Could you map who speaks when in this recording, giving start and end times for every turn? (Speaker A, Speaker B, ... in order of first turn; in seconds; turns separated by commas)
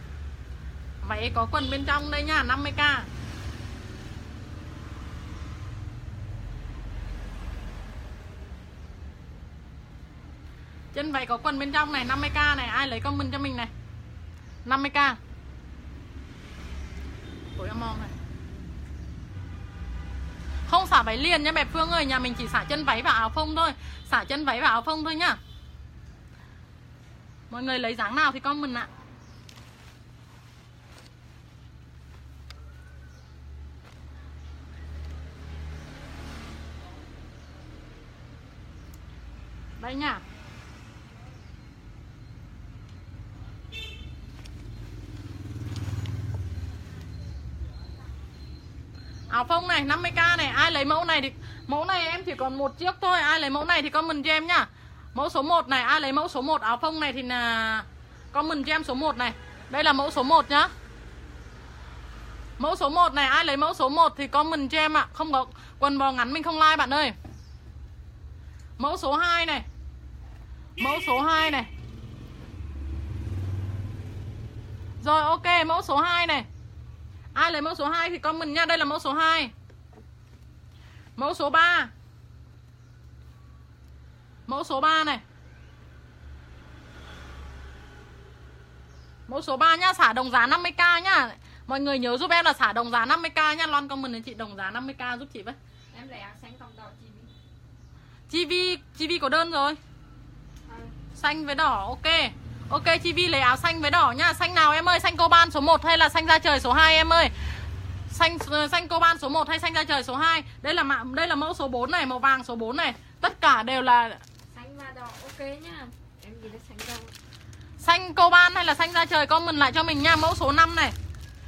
Speaker A: 1.0-3.1, Speaker A: 10.9-13.7, Speaker A: 14.6-15.2, Speaker A: 17.5-18.1, Speaker A: 20.7-25.4, Speaker A: 27.5-28.9, Speaker A: 39.8-40.2, Speaker A: 49.3-60.7, Speaker A: 62.6-67.1, Speaker A: 68.8-69.7, Speaker A: 70.8-71.7, Speaker B: 70.8-71.3, Speaker A: 75.0-76.5, Speaker A: 77.3-79.5, Speaker A: 81.2-81.9, Speaker A: 84.5-85.2, Speaker A: 89.3-95.6, Speaker B: 95.9-97.3, Speaker A: 98.3-99.8, Speaker B: 100.7-100.9, Speaker A: 101.1-107.3, Speaker A: 108.1-114.2, Speaker B: 114.5-117.1, Speaker A: 117.8-120.9